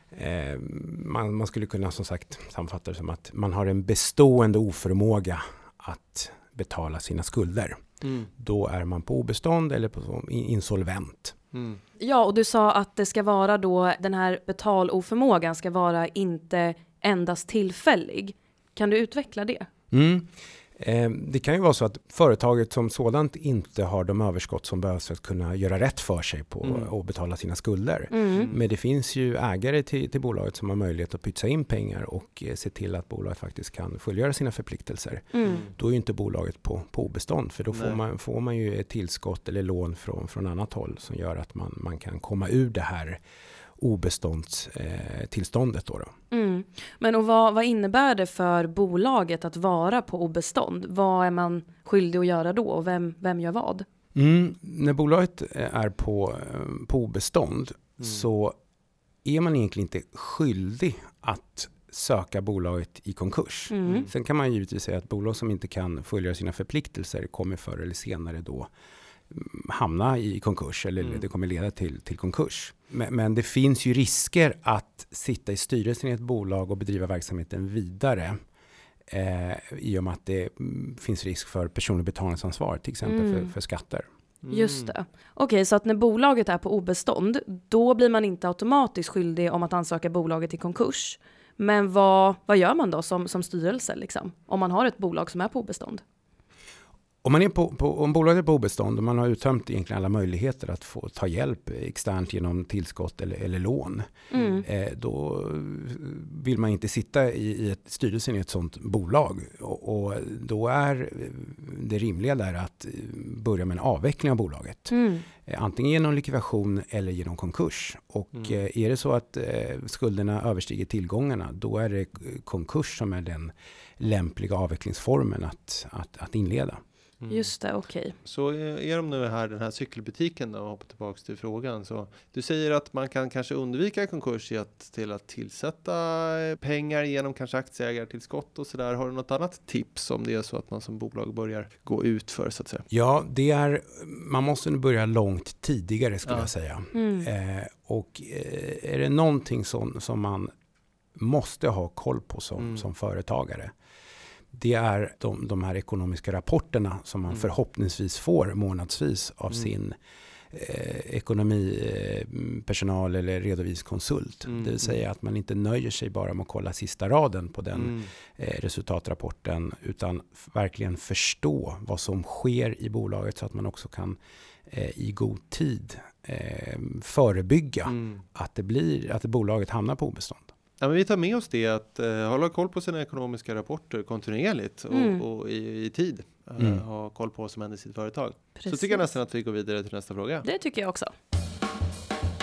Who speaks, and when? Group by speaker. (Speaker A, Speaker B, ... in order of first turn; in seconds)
Speaker A: 0.1-7.8, 8.4-11.4, 19.9-43.2, 43.8-46.1, 54.1-58.5, 59.2-68.7, 69.3-78.4, 79.1-84.1, 97.2-114.9, 115.4-126.8, 142.9-150.5, 151.2-153.7, 154.5-159.9, 160.5-180.5, 186.6-186.8
Speaker B: 8.0-8.3, 11.5-11.8, 26.6-26.9, 35.4-35.7, 37.7-38.0, 84.4-84.9, 127.2-127.5, 128.2-142.8, 152.6-152.8, 164.5-165.0, 167.7-168.1, 177.9-178.2, 180.8-190.4
Speaker C: 12.0-19.7, 28.1-28.5, 35.3-35.6, 46.3-53.8, 63.7-64.1, 83.0-83.5, 84.5-96.0, 104.3-104.6, 114.9-115.3, 127.3-128.1, 146.9-147.3, 184.9-185.2, 188.6-189.1, 190.4-191.1